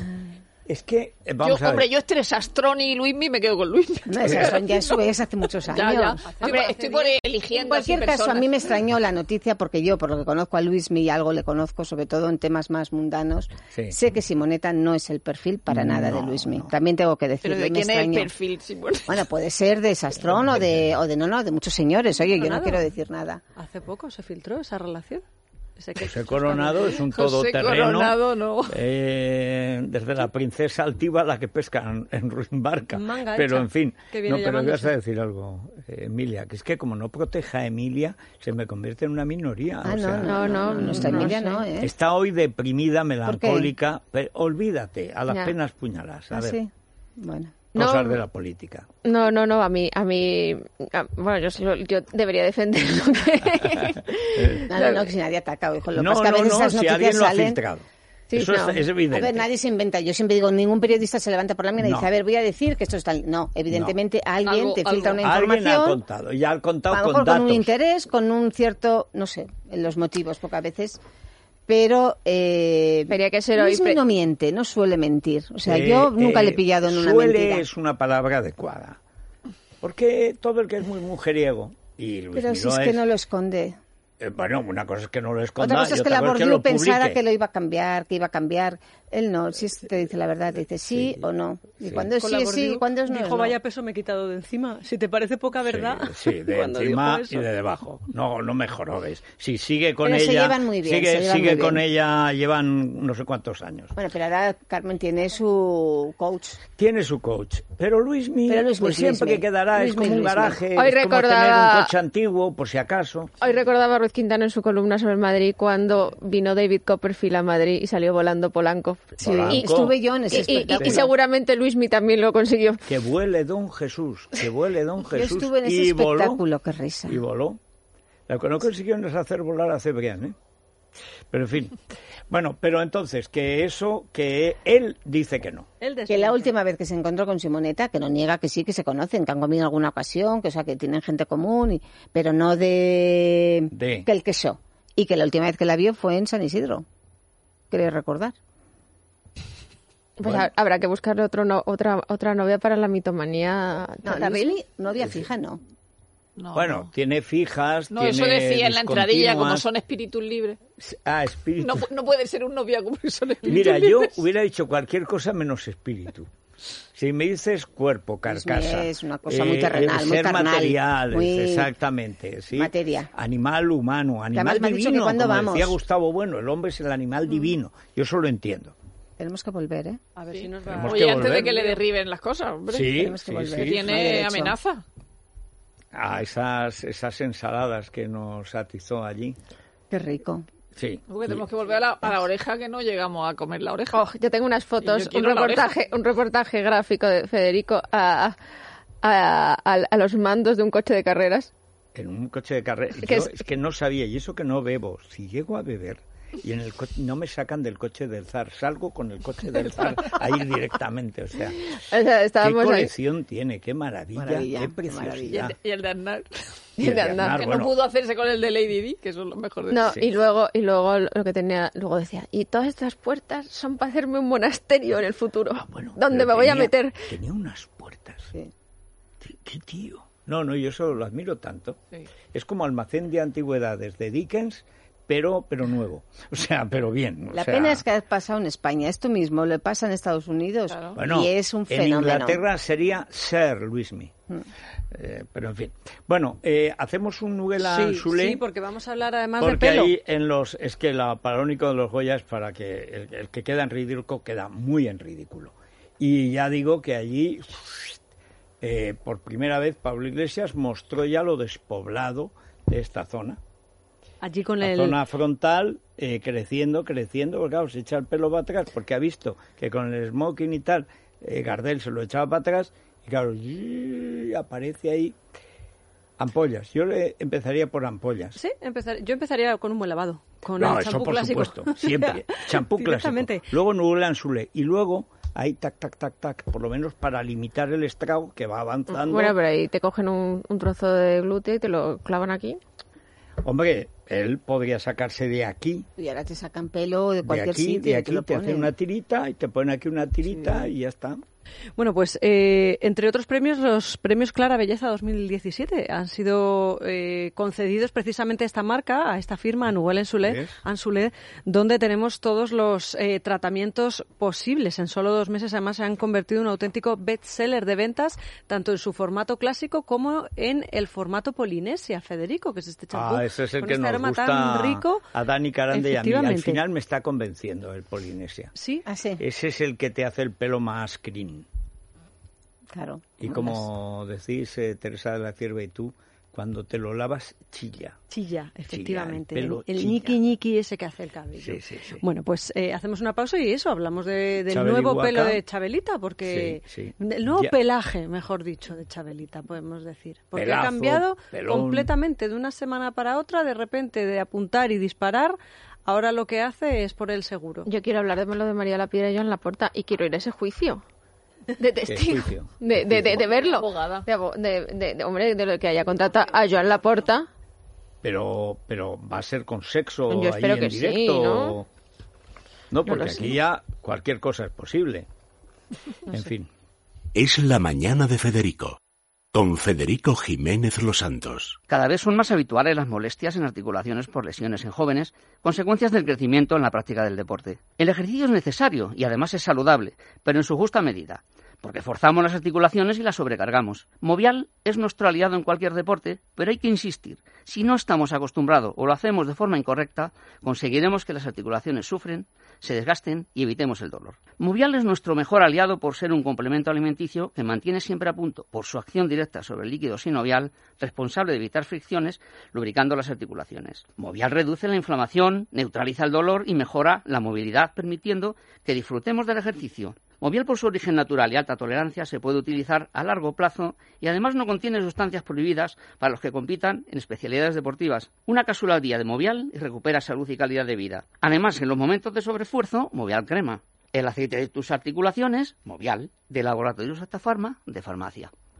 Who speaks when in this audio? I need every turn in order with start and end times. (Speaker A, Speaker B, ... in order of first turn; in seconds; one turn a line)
Speaker A: 0.7-1.9
Speaker B: 1.4-5.0
Speaker C: 4.1-6.9
Speaker B: 5.7-8.6
Speaker D: 6.3-6.6
Speaker C: 7.5-18.3
Speaker A: 15.7-16.7
Speaker B: 17.4-19.2
Speaker C: 19.1-23.4
Speaker A: 20.2-20.9
Speaker D: 22.4-22.8
Speaker D: 23.6-25.2
Speaker D: 25.8-27.0
Speaker A: 26.0-40.6
Speaker B: 27.1-28.8
Speaker D: 32.9-34.9
Speaker C: 39.8-41.9
Speaker E: 40.2-41.6
Speaker A: 41.8-46.6
Speaker C: 43.2-43.7
Speaker E: 45.3-45.5
Speaker C: 46.3-47.7
Speaker A: 47.7-48.9
Speaker E: 47.8-48.2
Speaker E: 49.0-55.0
Speaker A: 54.4-54.7
Speaker C: 54.7-57.6
Speaker A: 55.9-59.5
Speaker E: 58.3-58.8
Speaker C: 59.1-66.0
Speaker A: 61.8-62.1
Speaker B: 64.4-65.2
Speaker A: 65.2-67.7
Speaker C: 66.9-71.0
Speaker C: 71.7-77.7
Speaker E: 73.1-74.0
Speaker A: 75.7-79.0
Speaker A: 79.8-83.0
Speaker C: 82.3-83.8
Speaker A: 84.2-87.2
Speaker C: 85.6-93.5
Speaker A: 90.9-91.2
Speaker D: 92.2-97.4
Speaker A: 95.6-103.9
Speaker C: 100.0-101.8
Speaker C: 103.9-106.6
Speaker A: 106.8-113.3
Speaker C: 108.5-110.6
Speaker E: 110.7-111.9
Speaker E: 113.4-119.7
Speaker A: 119.2-121.1
Speaker C: 119.2-121.1
Speaker E: 120.3-122.8
Speaker A: 122.9-126.4
Speaker C: 125.0-127.2
Speaker A: 127.1-127.6
Speaker A: 128.3-130.3
Speaker A: 131.3-135.7
Speaker D: 135.8-136.5
Speaker C: 136.1-146.8
Speaker A: 143.7-144.1
Speaker C: 147.7-148.3
Speaker E: 150.2-154.6
Speaker C: 154.0-155.6
Speaker B: 156.4-156.9
Speaker A: 156.5-159.6
Speaker B: 157.9-160.6
Speaker A: 160.8-161.8
Speaker B: 161.6-164.2
Speaker A: 163.4-166.3
Speaker A: 166.9-178.7
Speaker C: 168.2-171.7
Speaker C: 172.5-173.1
Speaker C: 174.3-175.8
Speaker C: 179.2-180.0
Speaker D: 180.2-181.8
Speaker B: 180.3-184.8
Speaker A: 180.7-181.6
Speaker A: 182.7-184.0
Speaker C: 182.9-184.6
Speaker A: 185.9-189.4
Speaker C: 189.9-190.4
Speaker A: 190.8-191.4
Speaker B: 191.1-194.0
Speaker E: 193.9-198.3
Speaker B: 194.8-195.7
Speaker E: 199.0-201.5
Speaker A: 201.9-211.8
Speaker E: 203.0-203.4
Speaker E: 211.8-212.9
Speaker A: 212.4-215.5
Speaker C: 214.1-215.5
Speaker B: 215.3-216.4
Speaker E: 216.8-217.3
Speaker A: 216.8-217.7
Speaker B: 217.2-219.9
Speaker E: 219.7-227.1
Speaker A: 225.6-228.3
Speaker A: 229.2-231.8
Speaker A: 232.3-237.8
Speaker C: 237.3-242.4
Speaker B: 240.7-241.0
Speaker A: 240.9-244.1
Speaker A: 244.9-248.4
Speaker D: 247.6-249.9
Speaker A: 249.4-258.0
Speaker A: 258.6-263.4
Speaker D: 264.2-265.0
Speaker A: 264.6-275.1
Speaker A: 276.2-278.4
Speaker D: 278.3-283.5
Speaker A: 280.6-289.4
Speaker E: 288.9-292.6
Speaker A: 293.4-295.9
Speaker C: 296.0-298.7
Speaker A: 297.2-301.2
Speaker D: 301.8-325.1
Speaker A: 310.2-310.6
Speaker A: 322.9-328.5
Speaker D: 325.7-326.6
Speaker D: 328.5-328.8
Speaker C: 328.8-329.2
Speaker A: 329.2-331.4
Speaker C: 332.7-333.6
Speaker A: 333.2-338.0
Speaker D: 338.1-357.7
Speaker A: 338.7-340.2
Speaker A: 341.4-342.0
Speaker A: 344.5-345.4
Speaker A: 346.2-347.5
Speaker A: 350.3-351.9
Speaker E: 357.6-360.8
Speaker E: 361.6-367.3
Speaker A: 361.8-363.2
Speaker B: 363.1-364.1
Speaker A: 368.0-371.7
Speaker E: 370.1-371.6
Speaker A: 372.7-375.1
Speaker E: 372.9-373.4
Speaker A: 376.1-376.5
Speaker F: 377.1-378.8
Speaker F: 379.3-381.6
Speaker G: 381.7-438.3